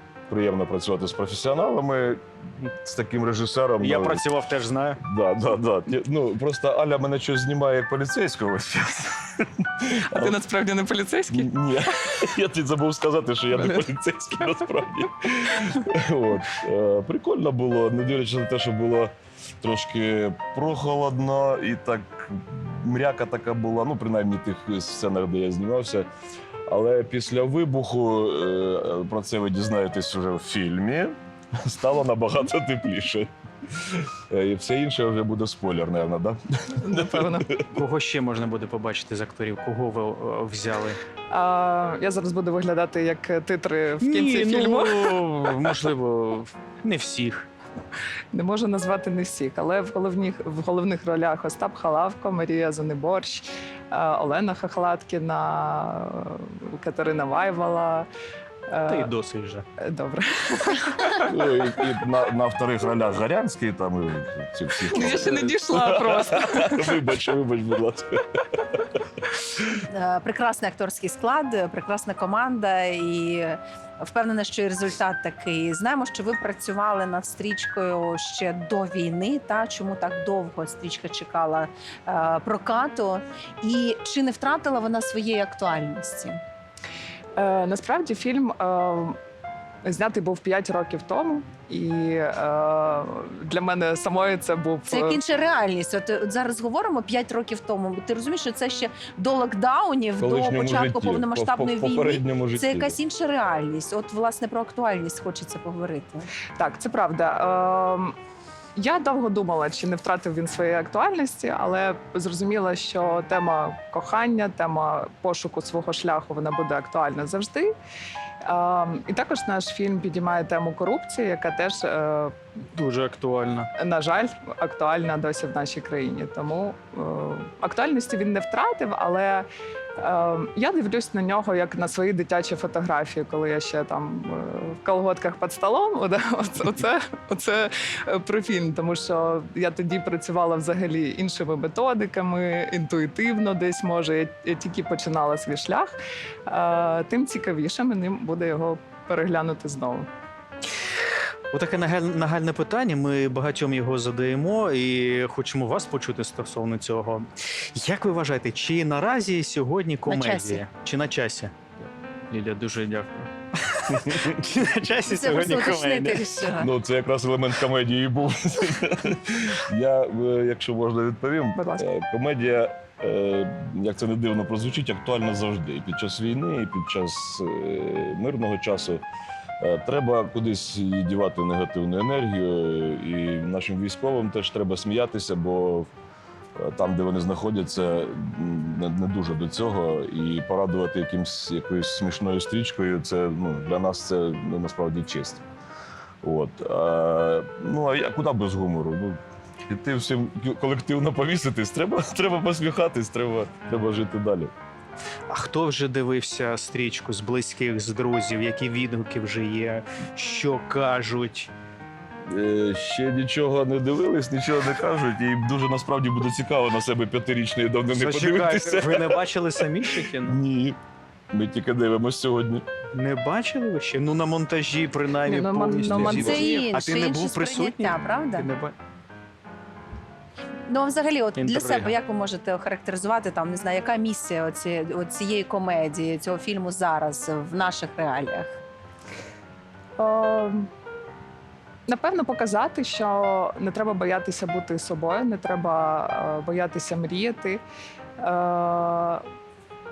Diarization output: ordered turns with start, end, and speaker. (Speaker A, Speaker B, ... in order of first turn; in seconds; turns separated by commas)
Speaker A: 0.3-4.2, Speaker B: 3.8-5.0, Speaker A: 5.0-10.4, Speaker C: 10.1-11.5, Speaker A: 11.3-26.1, Speaker C: 13.5-13.9, Speaker A: 26.7-37.6, Speaker C: 36.8-37.5, Speaker B: 37.7-41.0, Speaker C: 41.3-45.7, Speaker B: 44.0-47.5, Speaker C: 48.3-58.1, Speaker C: 58.7-59.1, Speaker B: 58.9-59.6, Speaker C: 59.8-61.3, Speaker A: 61.2-69.0, Speaker C: 64.9-67.0, Speaker D: 69.9-86.4, Speaker C: 87.4-89.2, Speaker C: 89.8-95.2, Speaker D: 94.9-106.3, Speaker A: 100.2-103.0, Speaker C: 106.6-108.2, Speaker C: 108.8-117.7, Speaker C: 118.4-122.3, Speaker B: 122.7-123.7, Speaker C: 123.8-129.5, Speaker C: 130.0-145.9, Speaker C: 146.5-150.1, Speaker B: 151.5-166.3, Speaker D: 160.1-160.6, Speaker D: 165.1-166.7, Speaker A: 166.6-179.0, Speaker C: 171.6-171.9, Speaker A: 179.6-185.9, Speaker A: 186.6-195.4, Speaker A: 196.2-204.5, Speaker B: 205.3-211.5, Speaker A: 212.3-220.8, Speaker B: 217.9-220.4, Speaker A: 221.3-222.7, Speaker B: 222.9-228.8, Speaker C: 225.2-226.4, Speaker A: 225.9-226.5, Speaker D: 226.0-228.5, Speaker D: 230.7-238.6, Speaker B: 231.4-231.9, Speaker C: 240.0-240.7, Speaker C: 241.9-247.6, Speaker C: 248.2-249.2